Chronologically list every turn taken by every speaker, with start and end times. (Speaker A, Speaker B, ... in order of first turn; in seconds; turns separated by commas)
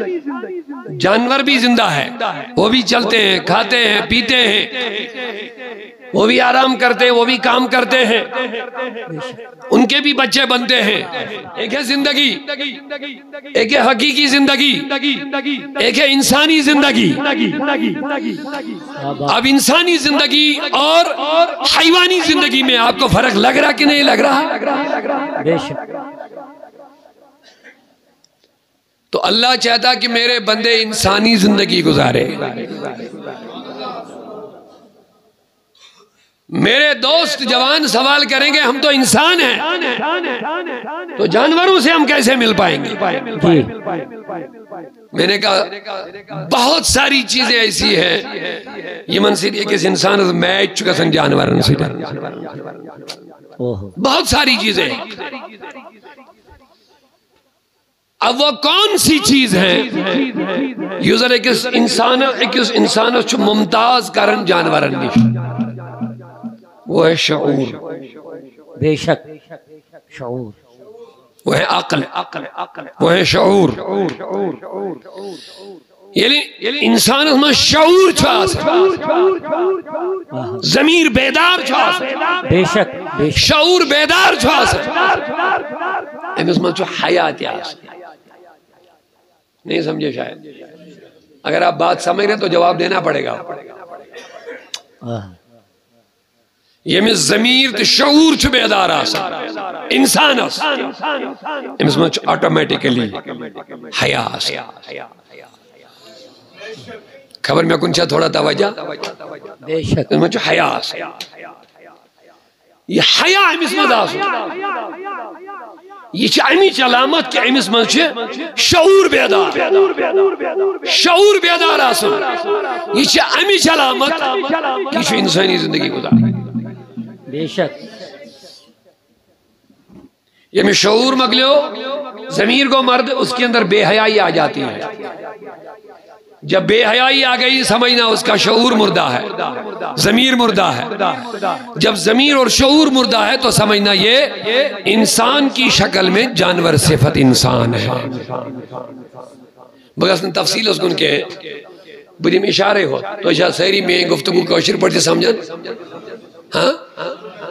Speaker A: 0.9-5.1, Speaker A: 6.1-8.6, Speaker B: 9.1-9.4, Speaker A: 9.7-12.8, Speaker A: 13.5-17.9, Speaker B: 19.0-19.4, Speaker A: 19.3-24.9, Speaker B: 25.4-25.9, Speaker A: 29.1-32.9, Speaker A: 36.5-39.9, Speaker A: 41.2-43.4, Speaker B: 43.3-43.8, Speaker A: 45.1-52.6, Speaker B: 53.6-54.0, Speaker A: 54.0-55.2, Speaker A: 58.2-65.6, Speaker A: 66.9-68.0, Speaker B: 68.8-69.4, Speaker B: 70.1-70.6, Speaker A: 71.5-74.5, Speaker A: 76.2-79.2, Speaker B: 80.3-80.6, Speaker A: 80.6-82.3, Speaker B: 82.4-83.5, Speaker A: 83.3-85.2, Speaker A: 86.4-87.9, Speaker A: 89.7-90.5, Speaker A: 91.4-93.7, Speaker B: 95.0-95.3, Speaker A: 96.9-101.1, Speaker A: 101.8-103.3, Speaker A: 103.9-104.8, Speaker A: 107.4-109.1, Speaker B: 109.6-110.1, Speaker A: 110.1-111.1, Speaker A: 112.9-114.5, Speaker A: 116.1-120.1, Speaker A: 120.8-126.4, Speaker B: 127.3-127.8, Speaker A: 130.5-134.9, Speaker A: 136.4-148.7, Speaker A: 150.0-151.6, Speaker A: 152.2-155.7, Speaker A: 156.5-157.2